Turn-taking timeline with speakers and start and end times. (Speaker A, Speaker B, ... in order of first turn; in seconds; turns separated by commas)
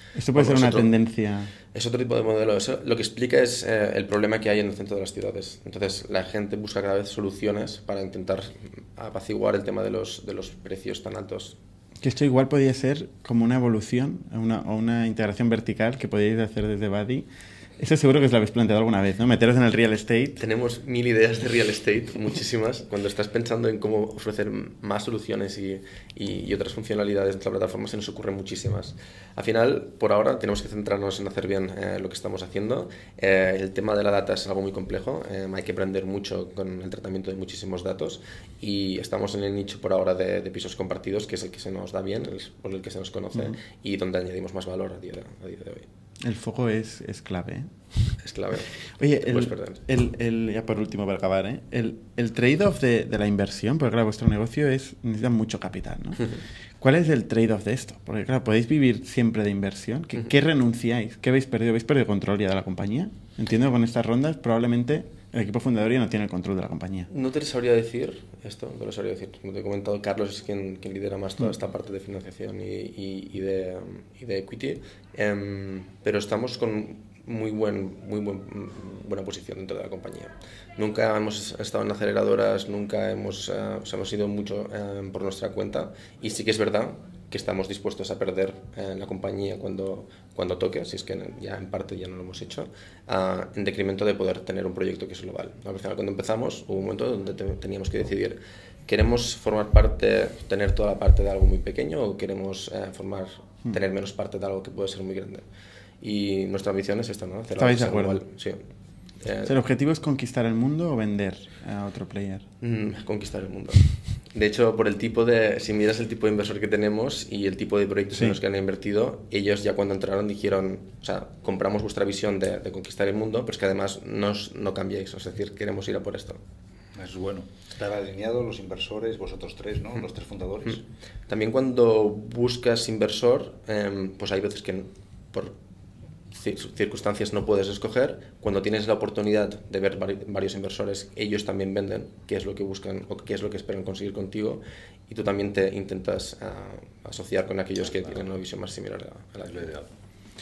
Speaker A: 0.1-1.5, Speaker B: 0.3-0.9, Speaker B: 1.7-11.6, Speaker A: 12.0-17.3, Speaker A: 17.8-20.4, Speaker B: 20.4-45.9, Speaker A: 46.2-47.7, Speaker B: 48.2-48.7, Speaker A: 49.0-67.1, Speaker B: 49.2-49.8, Speaker B: 67.1-105.4, Speaker B: 106.0-108.6, Speaker A: 107.6-108.2, Speaker B: 109.2-109.5, Speaker A: 109.5-112.5, Speaker B: 112.6-126.4, Speaker C: 127.0-130.8, Speaker B: 131.3-135.6, Speaker B: 136.3-149.7, Speaker C: 147.9-148.3, Speaker C: 149.5-149.9